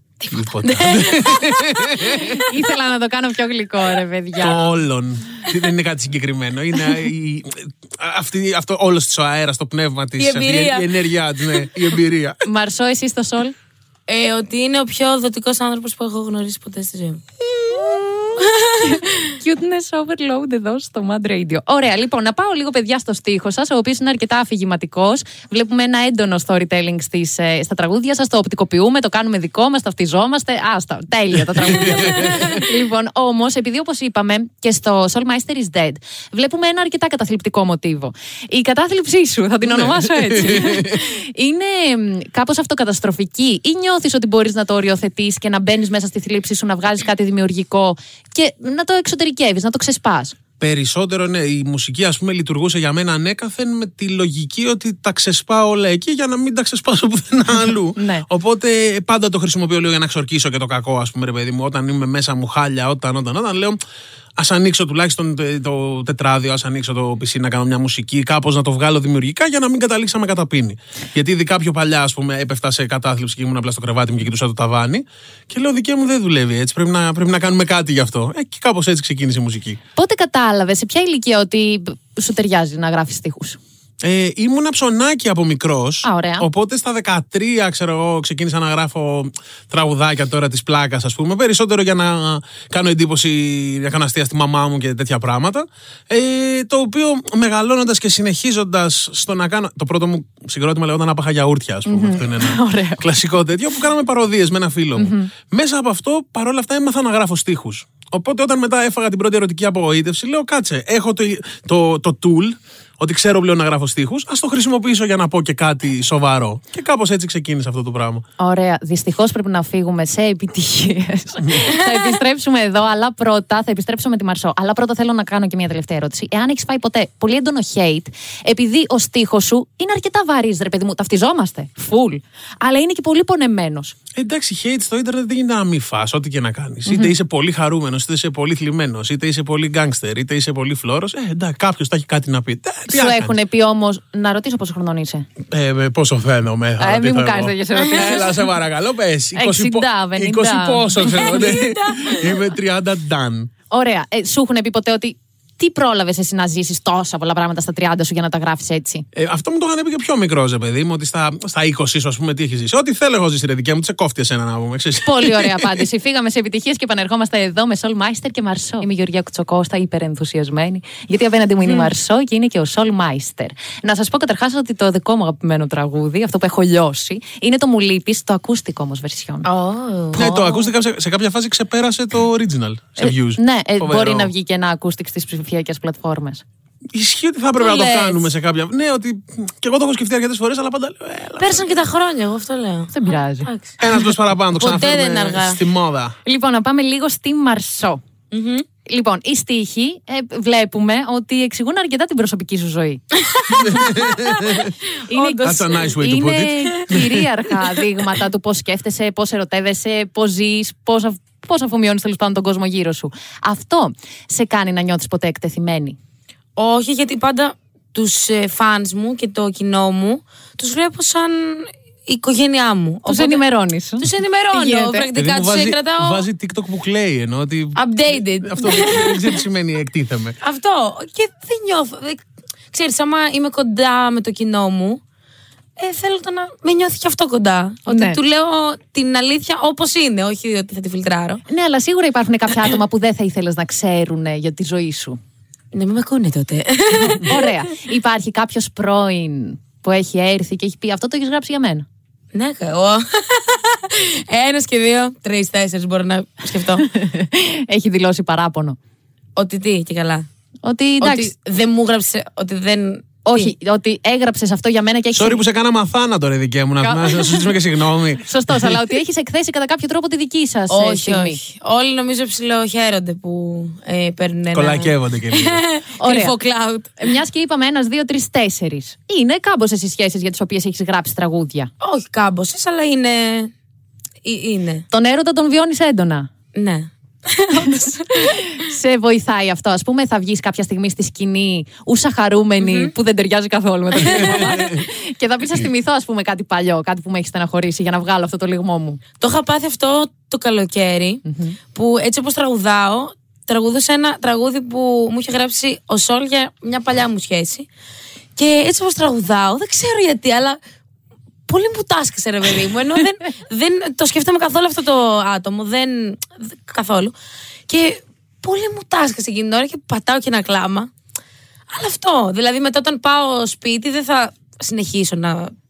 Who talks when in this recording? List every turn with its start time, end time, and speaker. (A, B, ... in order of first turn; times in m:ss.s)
0:00.2-0:01.5 A
0:00.3-0:02.4 B
0:02.0-0:04.8 C
0:04.4-0:12.4 B
0:10.2-0:10.9 A
0:12.4-0:13.5 C
0:14.1-0:19.1 A
0:18.8-0:50.4 C
0:31.7-0:32.6 B
0:39.8-0:40.9 B
0:50.6-1:03.8 B
0:57.9-0:58.2 C
1:04.4-1:19.8 B
1:20.0-1:23.6 C
1:24.0-1:58.2 B
1:26.0-1:26.4 C
1:41.8-1:43.0 C
1:45.0-1:45.3 C
1:58.4-2:13.9 C
2:14.2-2:23.4 B
2:16.8-2:17.1 C
2:22.9-2:25.2 C
2:25.5-2:33.5 B
2:26.8-2:28.4 C
2:29.3-2:31.5 C
2:31.7-2:32.2 A
2:33.7-2:39.0 C
2:39.1-2:45.8 B
2:45.0-2:59.5 C
2:59.4-3:00.7 A
3:00.1-3:04.3 B
3:03.0-3:06.4 C
3:06.9-3:11.7 B
3:07.6-3:08.3 A
3:11.4-3:13.8 A
3:12.9-3:13.5 C
3:13.8-3:16.1 B
3:14.6-3:15.6 A
3:16.2-3:18.0 C
3:18.3-3:18.6 A
3:18.8-3:24.0 C
3:23.4-3:25.9 A
3:23.7-3:24.7 B
3:25.1-3:36.0 C
3:25.4-3:27.2 B
3:36.6-3:43.4 A
3:43.0-3:45.1 C
3:44.0-3:46.3 A
3:45.1-3:50.4 B
3:47.8-3:49.4 A
3:50.4-3:52.2 A
3:52.7-3:55.0 A
3:55.8-4:01.4 A
3:57.9-3:58.2 C
4:01.5-4:05.2 C
4:05.7-4:07.5 A
4:06.9-4:11.8 C
4:12.3-4:16.9 A
4:16.8-4:18.8 C
4:19.4-4:20.2 A
4:20.6-4:21.3 C
4:21.0-4:23.5 A
4:23.2-4:25.4 C
4:25.1-4:28.8 B
4:26.8-4:27.5 C
4:28.2-4:31.4 C
4:30.7-4:37.0 A
4:34.5-4:35.6 B
4:36.0-4:36.4 C
4:37.0-4:41.7 C
4:41.8-4:43.5 A
4:44.2-4:44.8 A
4:44.9-4:46.3 C
4:46.5-4:48.4 A
4:48.5-4:59.0 C
4:52.6-4:52.9 A
4:54.0-4:54.6 A
4:59.2-5:01.2 A
5:01.2-5:01.6 C
5:01.7-5:07.7 A
5:08.4-5:10.6 A
5:11.5-5:17.1 A
5:17.7-5:20.9 A
5:21.7-5:25.5 A